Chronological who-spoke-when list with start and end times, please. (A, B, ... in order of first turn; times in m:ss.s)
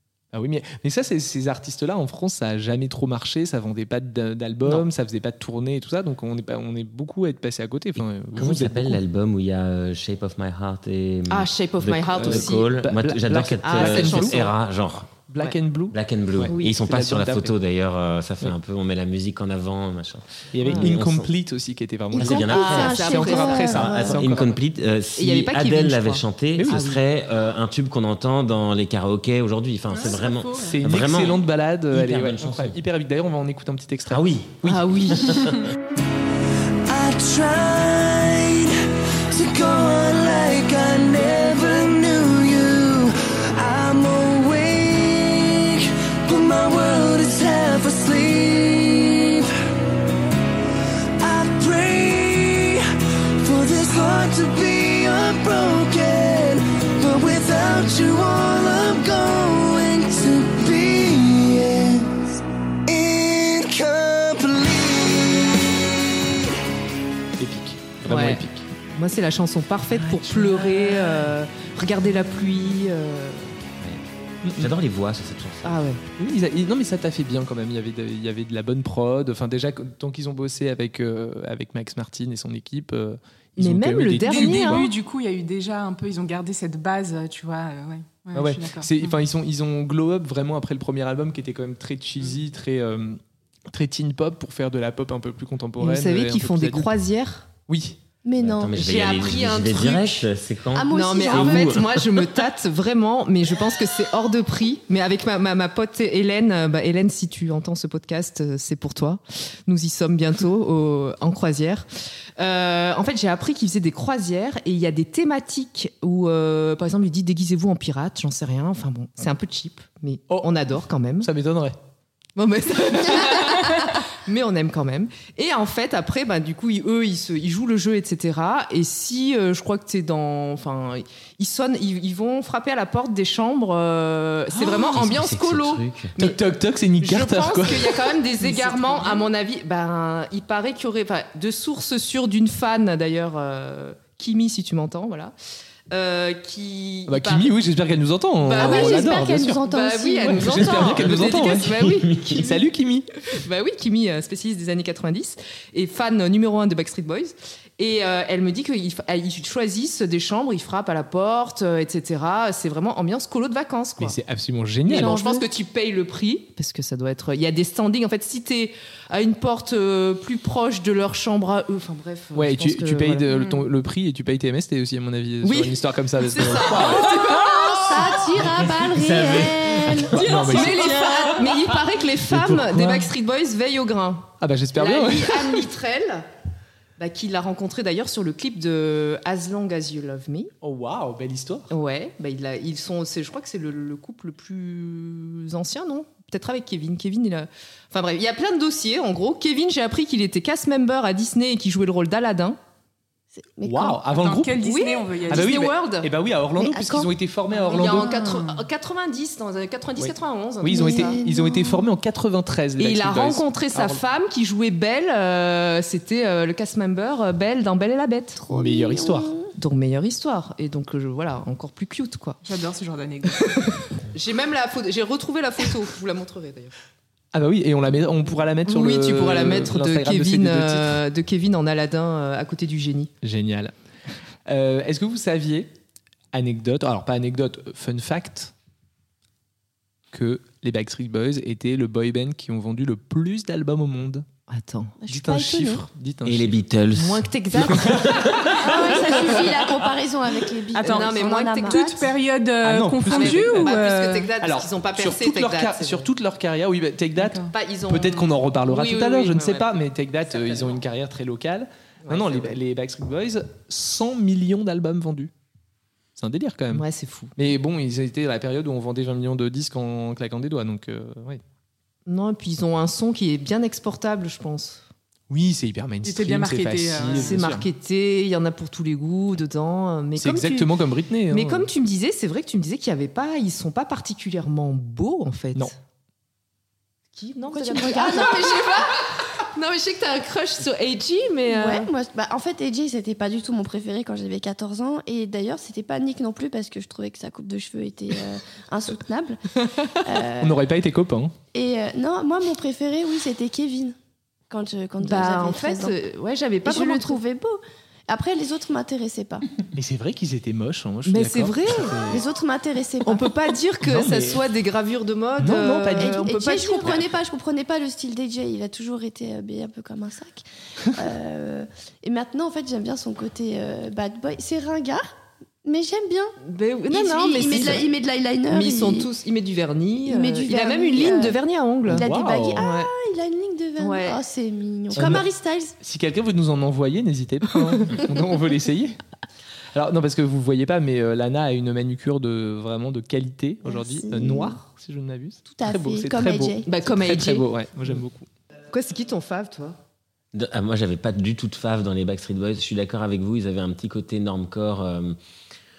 0:00.3-0:09.0 A
0:08.3-0:15.2 B
0:11.3-0:12.7 C
0:12.2-0:14.5 A
0:13.6-0:14.5 C
0:15.3-0:17.6 A
0:15.9-0:21.3 B
0:16.5-0:16.8 C
0:20.5-0:24.6 A
0:20.6-0:20.9 C
0:22.1-0:24.2 D
0:22.2-0:32.8 B
0:22.2-0:24.2 C
0:25.2-0:27.0 C
0:26.6-0:26.9 A
0:29.9-0:30.8 E
0:30.7-0:35.1 A
0:34.1-0:35.6 B
0:34.6-0:35.4 C
0:36.9-0:49.5 F
0:51.2-0:52.8 F
0:53.4-1:05.8 F
1:07.4-1:08.7 A
1:08.1-1:13.6 C
1:10.1-1:10.7 A
1:14.4-1:14.7 A
1:14.6-1:15.8 B
1:15.6-1:16.0 C
1:16.2-1:24.9 A
1:23.6-1:24.9 C
1:24.2-1:29.2 E
1:28.3-1:33.2 A
1:33.7-1:36.9 A
1:35.8-1:37.5 C
1:37.7-1:38.0 A
1:38.2-1:38.8 D
1:38.4-1:42.3 B
1:38.7-1:40.3 C
1:40.7-1:41.7 D
1:40.9-2:01.3 C
2:01.2-2:01.8 A
2:02.4-2:16.4 C
2:14.9-2:16.2 B
2:16.2-2:18.2 A
2:17.0-2:25.3 C
2:18.4-2:19.3 E
2:25.9-2:27.5 C
2:27.1-2:29.6 A
2:28.4-2:32.5 C
2:28.6-2:31.0 D
2:30.2-2:33.1 A
2:31.7-2:32.5 B
2:33.3-2:44.2 C
2:44.0-2:45.4 A
2:44.9-2:53.3 C
2:52.4-2:57.6 A
2:53.3-2:53.6 E
2:55.4-2:58.5 C
2:57.1-2:57.8 E
2:57.5-3:00.2 D
2:58.4-3:00.2 B
3:00.0-3:01.6 A
3:00.1-3:01.7 E
3:00.3-3:06.3 C
3:02.3-3:03.1 A
3:04.4-3:05.7 A
3:07.0-3:10.5 C
3:10.6-3:11.7 A
3:11.7-3:22.6 C
3:23.4-3:24.0 D
3:23.6-3:24.6 A
3:24.1-3:25.7 E
3:24.6-3:26.1 C
3:25.3-3:28.2 A
3:26.6-3:27.1 D
3:27.6-3:31.2 C
3:27.7-3:28.6 E
3:30.0-3:34.0 A
3:30.7-3:31.9 D
3:32.8-3:38.4 C
3:38.4-3:39.5 D
3:38.5-3:39.3 A
3:39.6-3:42.4 C
3:42.4-3:43.7 E
3:43.5-3:46.7 C
3:47.3-3:51.0 A
3:48.7-3:53.1 C
3:53.2-3:53.7 A
3:54.5-3:55.7 A
3:56.3-3:58.5 A
4:00.1-4:04.2 A
4:04.5-4:05.0 C
4:05.0-4:05.8 D
4:05.1-4:06.6 A
4:06.2-4:08.9 B
4:07.0-4:09.0 C
4:07.6-4:08.2 A
4:08.6-4:12.0 D
4:10.7-4:14.3 E
4:10.8-4:12.1 C
4:12.6-4:13.8 A
4:13.1-4:16.1 C
4:14.4-4:25.3 A
4:17.2-4:17.5 E
4:17.5-4:19.7 C
4:20.3-4:20.8 C
4:22.0-4:22.6 C
4:26.2-4:26.8 A
4:26.7-4:27.3 C
4:27.4-4:31.4 A
4:32.1-4:34.8 C
4:35.3-4:37.7 A
4:36.0-4:37.5 E
4:37.1-4:40.7 C
4:40.2-4:41.7 A
4:41.3-4:45.8 C
4:47.2-4:51.9 C
4:47.5-4:48.6 D
4:51.5-5:00.6 D
5:00.4-5:01.3 A
5:01.5-5:04.0 D
5:04.5-5:06.0 D
5:05.0-5:07.2 C
5:06.6-5:09.5 D
5:09.7-5:12.2 A
5:11.1-5:12.1 C
5:12.0-5:13.3 D
5:13.0-5:17.0 C
5:13.8-5:14.4 A
5:15.4-5:16.2 A
5:16.0-5:25.1 D
5:25.6-5:26.4 D
5:26.4-5:27.9 C
5:26.9-5:29.1 D
5:27.4-5:27.8 A
5:28.5-5:32.9 C
5:30.0-5:35.8 D
5:31.9-5:32.6 A
5:33.8-5:34.2 C
5:34.9-5:35.3 A
5:35.8-5:39.0 A
5:39.7-5:48.3 A
5:43.6-5:44.6 D
5:45.5-5:46.7 D
5:46.6-5:47.5 C
5:48.7-5:49.8 C
5:50.3-5:55.2 B